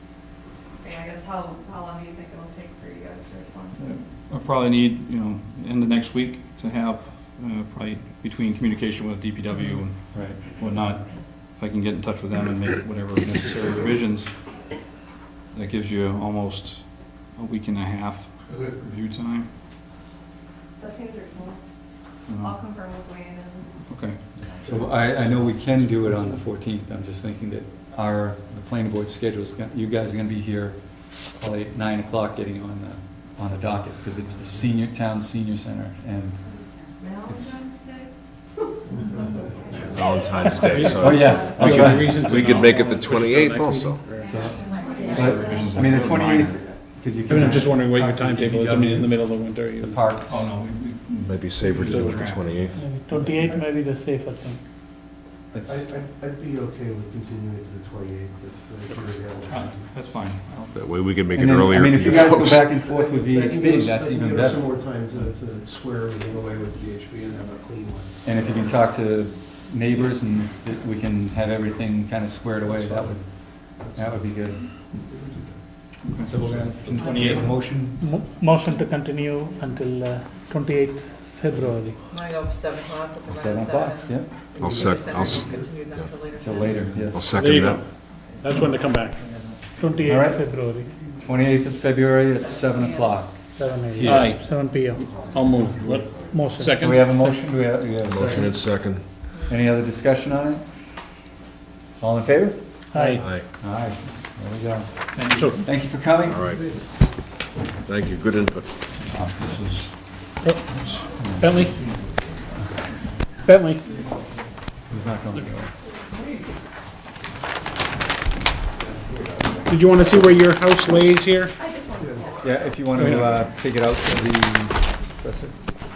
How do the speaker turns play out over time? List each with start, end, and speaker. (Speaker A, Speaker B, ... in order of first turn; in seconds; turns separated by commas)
Speaker A: 0.8-3.8, Speaker B: 3.8-14.3, Speaker C: 10.1-10.4, Speaker B: 15.5-19.5, Speaker A: 20.8-21.6, Speaker B: 22.3-22.6, Speaker A: 22.4-23.7, Speaker B: 23.9-24.2, Speaker C: 24.6-36.4, Speaker A: 36.5-41.6, Speaker C: 37.3-37.6, Speaker D: 39.8-44.0, Speaker C: 40.5-42.3, Speaker E: 40.8-44.3, Speaker A: 44.2-45.7, Speaker C: 44.2-49.1, Speaker F: 44.6-45.2, Speaker B: 45.1-46.5, Speaker D: 45.2-46.5, Speaker E: 47.2-50.0, Speaker C: 49.8-50.5, Speaker B: 50.2-52.7, Speaker D: 51.2-52.8, Speaker G: 52.7-54.6, Speaker H: 53.2-53.7, Speaker C: 55.5-55.9, Speaker H: 55.6-59.9, Speaker B: 59.5-60.8, Speaker D: 60.7-62.7, Speaker C: 61.3-64.7, Speaker H: 62.0-68.5, Speaker C: 68.2-74.7, Speaker H: 72.6-75.6, Speaker B: 76.0-76.3, Speaker C: 76.2-78.1, Speaker H: 76.3-77.5, Speaker F: 77.0-77.2, Speaker G: 78.0-82.0, Speaker F: 82.1-87.1, Speaker C: 83.2-84.3, Speaker D: 84.6-86.1, Speaker H: 85.1-85.7, Speaker C: 86.3-87.4, Speaker D: 87.1-87.8, Speaker E: 87.3-87.8, Speaker E: 88.4-89.3, Speaker G: 89.7-90.9, Speaker C: 90.0-90.5, Speaker C: 91.2-94.3, Speaker F: 92.2-93.5, Speaker G: 93.5-95.1, Speaker E: 94.0-94.5, Speaker E: 95.0-97.3, Speaker D: 95.1-96.4, Speaker G: 96.2-97.2, Speaker C: 96.7-98.7, Speaker D: 98.0-99.0, Speaker C: 99.3-100.6, Speaker C: 102.0-106.6, Speaker G: 102.9-103.3, Speaker D: 103.2-103.4, Speaker B: 105.1-105.6, Speaker E: 105.3-105.6, Speaker D: 106.2-106.6, Speaker D: 107.8-108.7, Speaker C: 109.0-110.1, Speaker C: 111.0-111.7, Speaker E: 111.4-111.7, Speaker E: 113.4-113.9, Speaker C: 114.9-115.7, Speaker H: 119.0-119.4, Speaker E: 119.6-121.5, Speaker A: 121.6-122.8, Speaker H: 122.0-122.3, Speaker C: 122.4-125.5, Speaker E: 123.0-123.2